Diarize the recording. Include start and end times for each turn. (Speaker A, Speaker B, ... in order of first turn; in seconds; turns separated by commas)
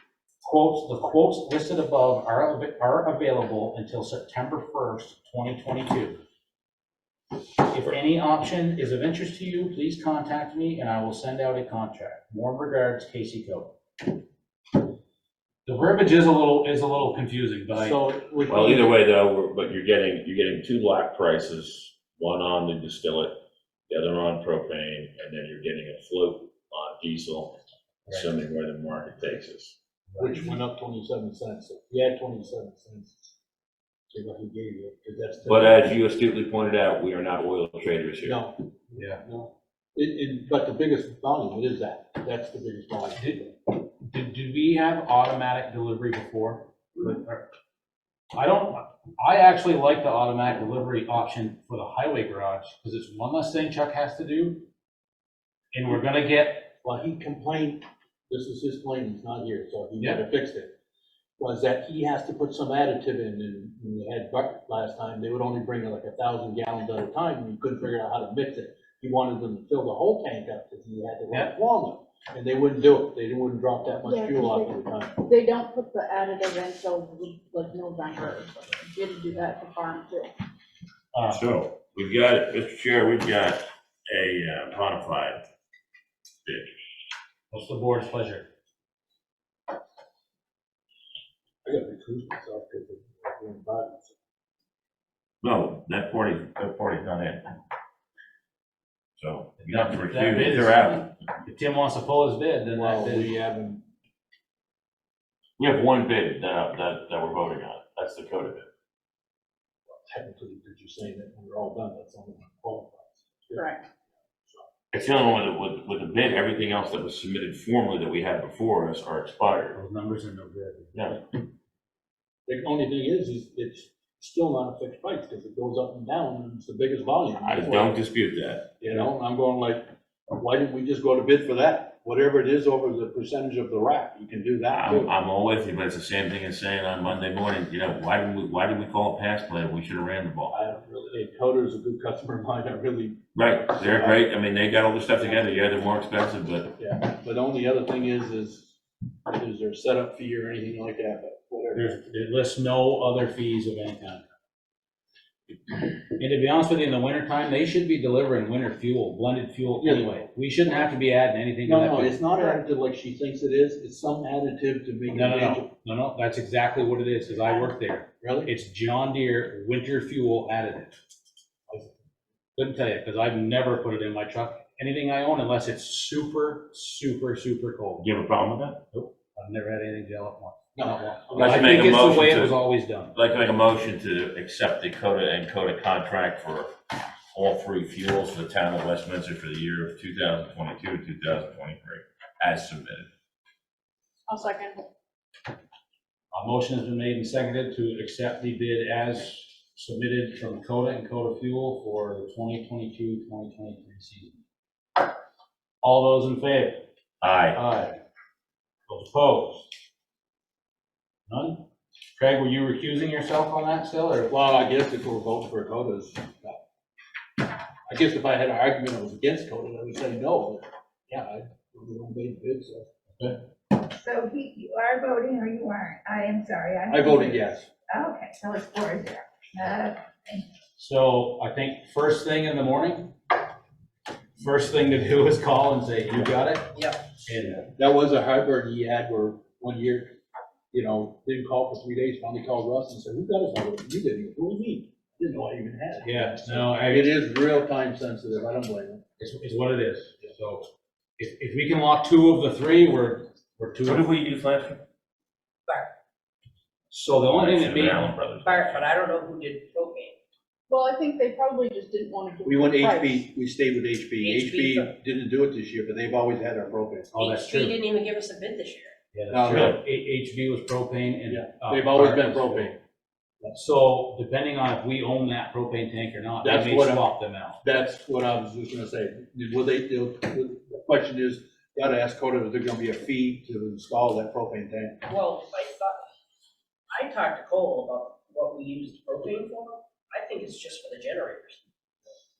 Speaker A: 0.4-6.2, Speaker A: 7.6-13.8, Speaker A: 15.7-18.0, Speaker B: 17.7-19.0, Speaker C: 18.5-23.4, Speaker C: 23.9-29.8, Speaker A: 30.1-30.6, Speaker B: 30.2-33.3, Speaker B: 34.1-36.0, Speaker C: 35.4-38.4, Speaker B: 38.2-43.5, Speaker A: 39.0-39.2, Speaker A: 43.2-47.5, Speaker A: 48.3-54.6, Speaker A: 55.7-56.7, Speaker B: 56.8-60.7, Speaker B: 61.4-75.2, Speaker D: 74.0-80.3, Speaker A: 81.1-81.4, Speaker C: 81.3-85.5, Speaker C: 86.5-86.7, Speaker A: 87.5-88.5, Speaker B: 91.7-94.2, Speaker C: 95.4-97.5, Speaker C: 99.2-101.1, Speaker A: 99.6-103.3, Speaker B: 102.7-103.8, Speaker C: 105.6-108.7, Speaker B: 109.9-113.7, Speaker D: 113.5-113.8, Speaker C: 114.9-119.8, Speaker A: 119.7-121.3, Speaker B: 122.5-128.0, Speaker C: 127.4-128.7, Speaker B: 128.8-135.1, Speaker C: 134.7-140.5, Speaker B: 140.5-143.2, Speaker C: 143.3-146.7, Speaker B: 143.7-144.2, Speaker B: 145.2-145.5, Speaker B: 146.8-152.0, Speaker A: 151.8-154.2, Speaker A: 156.1-162.2, Speaker B: 159.8-160.2, Speaker B: 161.7-165.7, Speaker A: 165.1-170.9, Speaker B: 168.2-168.5, Speaker A: 172.6-178.1, Speaker C: 178.0-178.8, Speaker A: 178.9-183.2, Speaker B: 180.8-181.9, Speaker C: 181.3-182.6, Speaker C: 183.1-186.7, Speaker C: 187.3-193.1, Speaker D: 194.3-194.9, Speaker A: 196.3-204.4, Speaker A: 205.8-206.9, Speaker C: 207.2-207.6, Speaker A: 207.5-208.0, Speaker A: 208.9-209.7, Speaker A: 211.3-211.6, Speaker A: 212.2-214.3, Speaker B: 214.3-216.6, Speaker B: 217.9-222.9, Speaker E: 223.8-230.5, Speaker B: 226.9-227.7, Speaker A: 230.8-233.1, Speaker A: 234.4-236.7, Speaker F: 236.7-237.0, Speaker A: 237.2-237.7, Speaker B: 237.8-240.1, Speaker B: 240.7-249.0, Speaker A: 246.0-247.2, Speaker A: 249.2-254.1, Speaker C: 253.8-254.8, Speaker A: 256.9-258.1, Speaker C: 257.3-258.9, Speaker F: 258.4-260.2, Speaker D: 260.7-263.2, Speaker B: 262.5-267.1, Speaker F: 264.2-264.9, Speaker A: 267.1-267.8, Speaker F: 267.2-269.0, Speaker A: 269.1-272.7, Speaker B: 269.3-269.7, Speaker C: 269.5-269.8, Speaker B: 271.3-272.8, Speaker A: 273.5-277.6, Speaker B: 276.4-277.1, Speaker B: 277.6-285.1, Speaker F: 285.1-286.0, Speaker F: 286.9-291.6